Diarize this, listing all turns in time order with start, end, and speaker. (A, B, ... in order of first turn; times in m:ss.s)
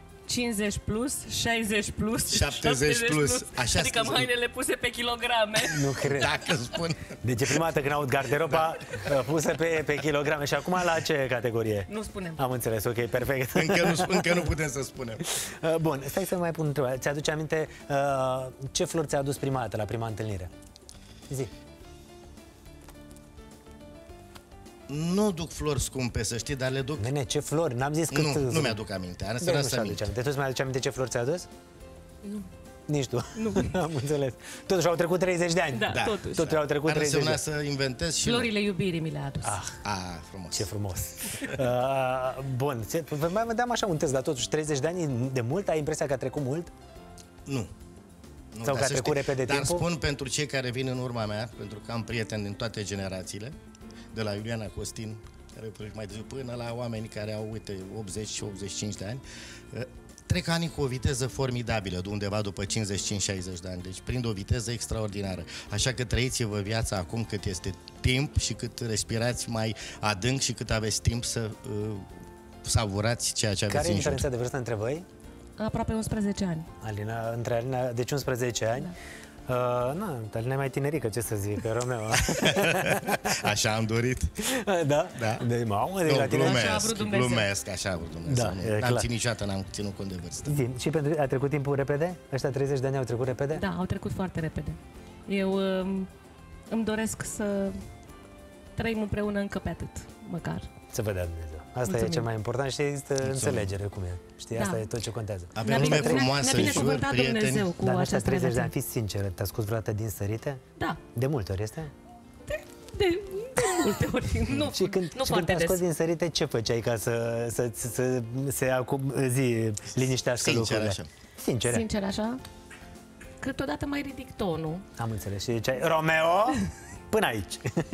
0:00.3-0:05.9 A
0:02.3-0:04.3 B
0:05.7-0:06.3 C
0:06.1-0:07.2 B
0:07.2-0:14.4 C
0:11.9-0:12.4 A
0:13.5-0:15.2 B
0:15.4-0:20.5 C
0:24.9-0:27.0 B
0:27.0-0:28.8 C
0:28.1-0:30.1 B
0:29.4-0:31.5 C
0:32.9-0:37.4 C
0:33.4-0:33.7 A
0:35.7-0:36.5 A
0:35.9-0:38.5 B
0:38.2-0:39.6 A
0:39.4-0:39.7 C
0:39.8-0:40.7 B
0:40.5-0:46.7 C
0:47.4-0:47.7 B
0:48.5-0:53.5 B
0:48.6-0:49.8 C
0:54.1-1:12.1 B
1:12.6-1:14.2 B
1:13.7-1:15.0 C
1:15.6-1:16.7 A
1:16.8-1:18.9 C
1:19.5-1:23.4 C
1:22.3-1:24.3 B
1:24.4-1:26.8 C
1:25.2-1:25.4 B
1:26.0-1:30.6 B
1:26.3-1:27.5 A
1:28.3-1:29.1 C
1:30.5-1:33.6 C
1:33.5-1:36.1 A
1:36.7-1:37.8 A
1:38.8-1:40.7 A
1:40.9-1:46.8 C
1:41.8-1:42.2 A
1:43.2-1:43.7 B
1:44.6-1:44.8 A
1:45.6-1:47.7 B
1:45.6-1:48.7 A
1:47.8-1:50.6 C
1:51.1-1:51.9 C
1:52.5-1:55.8 A
1:54.6-2:01.8 C
2:00.4-2:01.1 B
2:01.6-2:02.4 A
2:03.4-2:04.8 A
2:05.0-2:07.8 C